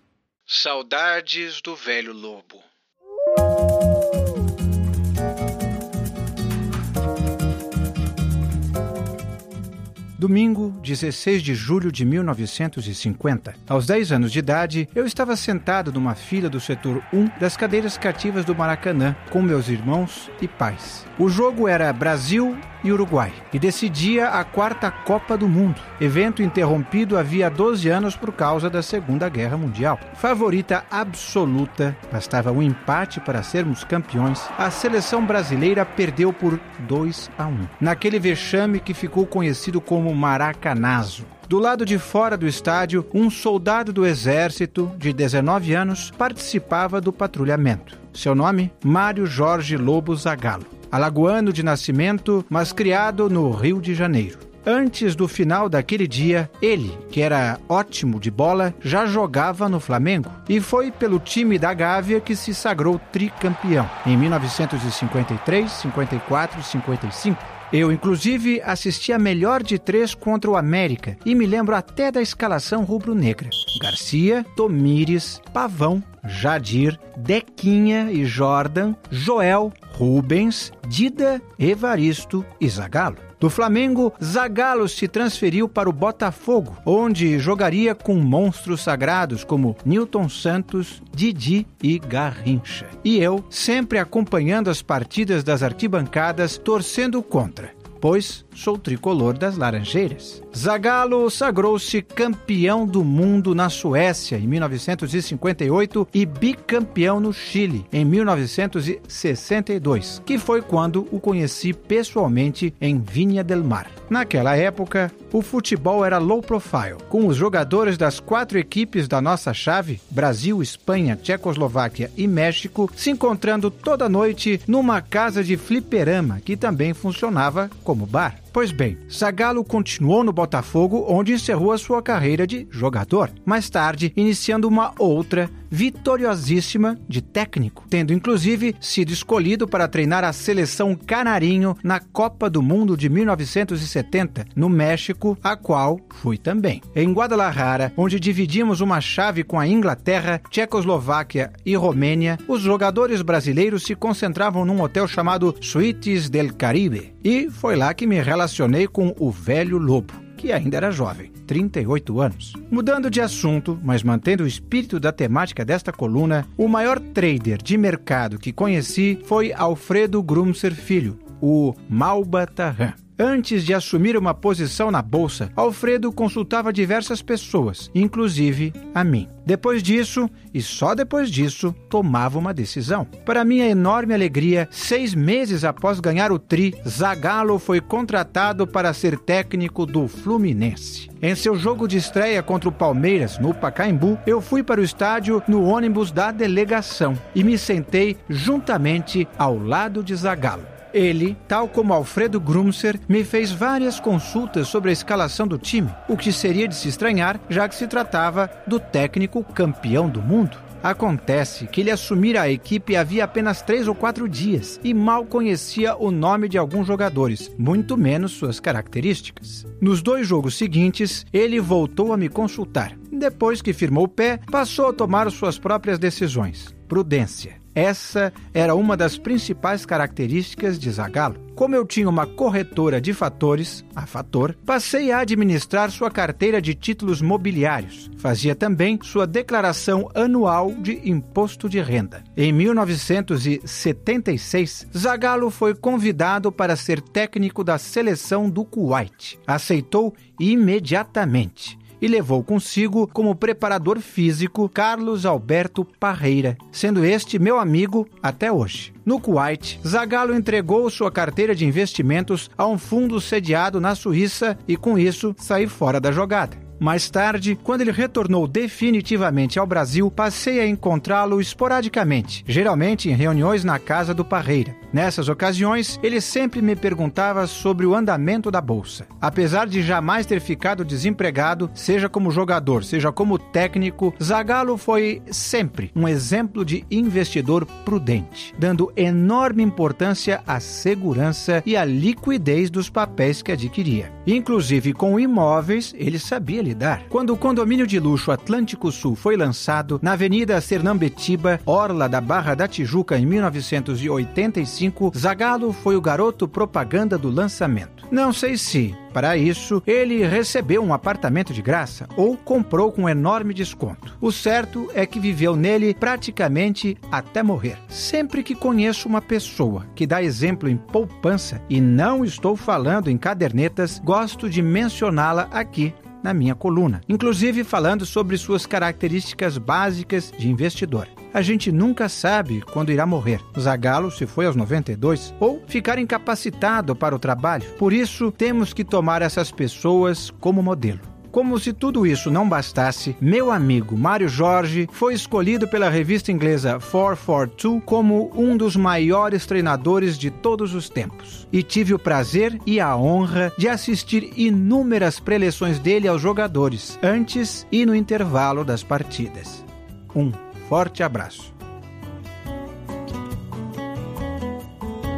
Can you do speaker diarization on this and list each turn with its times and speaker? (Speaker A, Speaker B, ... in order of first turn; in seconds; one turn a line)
Speaker A: 0.5-2.6
Speaker A: 10.2-361.5